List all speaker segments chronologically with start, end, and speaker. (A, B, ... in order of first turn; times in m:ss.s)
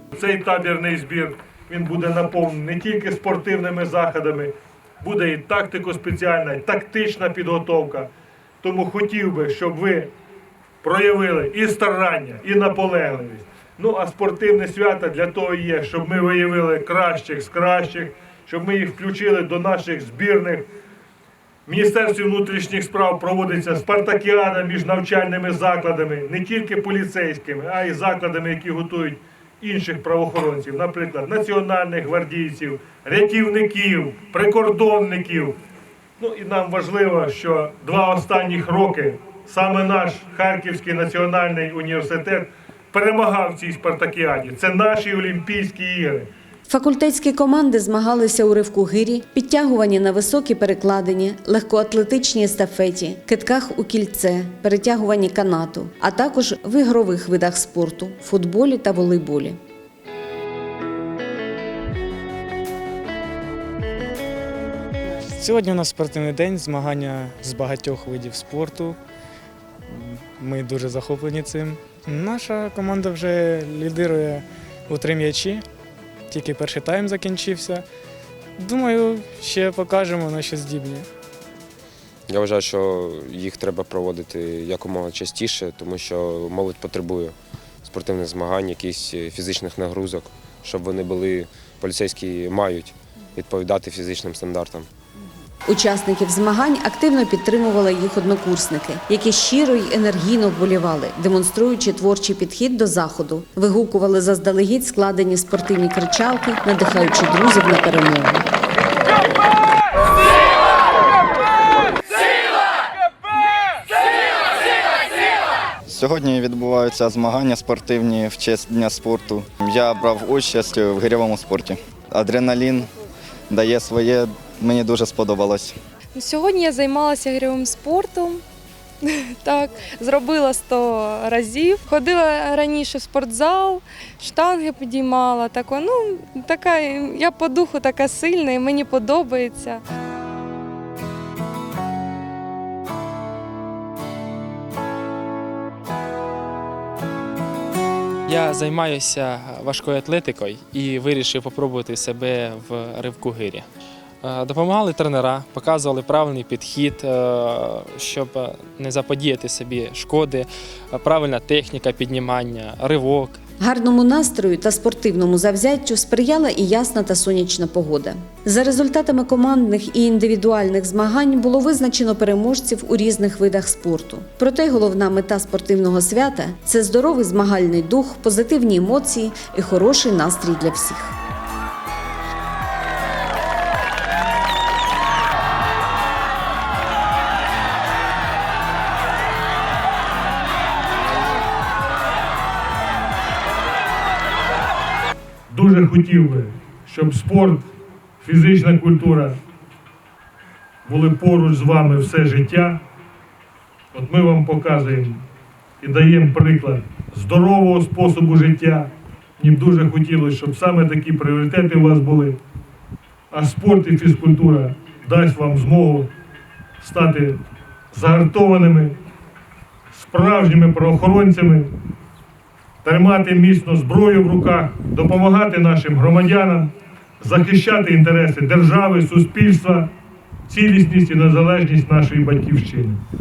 0:00.1-0:08.1 A
0:08.6-0:10.1 A
0:10.8-0:20.7 A
0:21.7-0:35.6 A
0:36.2-0:46.3 A
0:46.7-0:59.6 B
1:05.4-1:09.0 C
1:09.9-1:15.6 C
1:16.3-1:17.8 C
1:18.6-1:21.1 C
1:22.3-1:34.9 D
1:35.7-1:48.5 B
1:55.9-2:02.9 E
2:03.5-2:05.7 E
2:06.2-2:08.4 F
2:09.0-2:19.8 F
2:28.3-2:33.7 G
2:34.2-2:43.4 G
2:43.6-3:01.2 B
3:15.5-3:17.7 A
3:18.2-3:19.4 A
3:20.8-3:22.8 A
3:23.9-3:25.2 A
3:25.8-3:32.4 A
3:33.3-3:36.1 A
3:36.8-3:37.4 A
3:37.9-3:39.0 A
3:39.9-3:41.7 A
3:42.8-3:49.9 A
3:50.5-3:53.0 A